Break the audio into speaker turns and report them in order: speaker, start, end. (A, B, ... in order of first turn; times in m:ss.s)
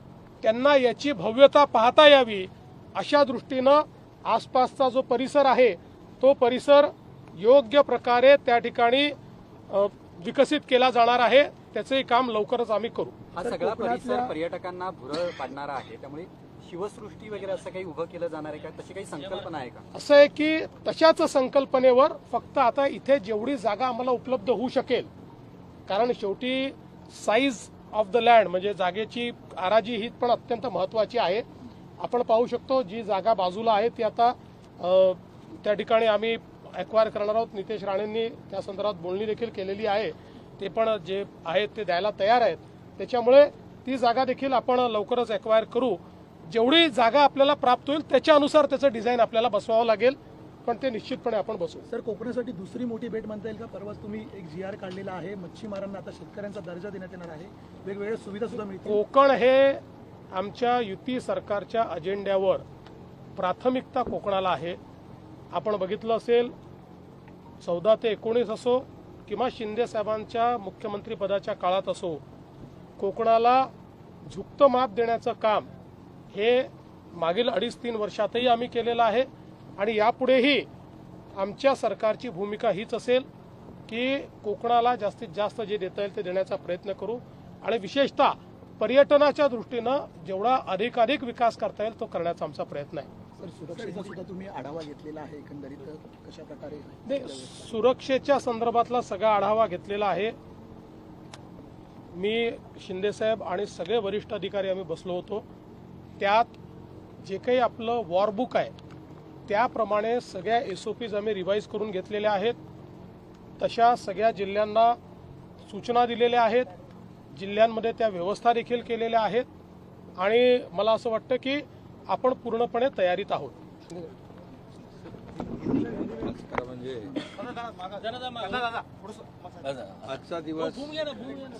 0:00.4-0:09.1 A
0:09.7-0:13.2 A
0:13.3-0:19.8 B
0:13.4-0:14.4 C
0:19.9-0:25.1 A
0:25.9-0:31.4 A
0:32.0-0:51.8 A
0:51.9-0:59.0 C
0:58.9-1:02.6 A
1:03.4-1:04.8 A
1:05.5-1:06.5 A
1:07.6-1:12.2 A
1:13.0-1:13.7 A
1:14.3-1:15.7 A
1:16.3-1:20.7 A
1:21.4-1:23.2 A
1:23.9-1:33.1 A
1:33.4-1:37.5 C
1:37.0-1:40.4 A
1:42.1-1:45.4 A
1:46.2-1:46.5 A
1:47.2-1:48.7 A
1:49.5-1:52.6 A
1:53.6-1:55.0 A
1:55.7-1:56.7 A
1:57.4-1:59.5 A
2:00.2-2:04.0 A
2:06.1-2:07.2 D
2:09.9-2:11.2 D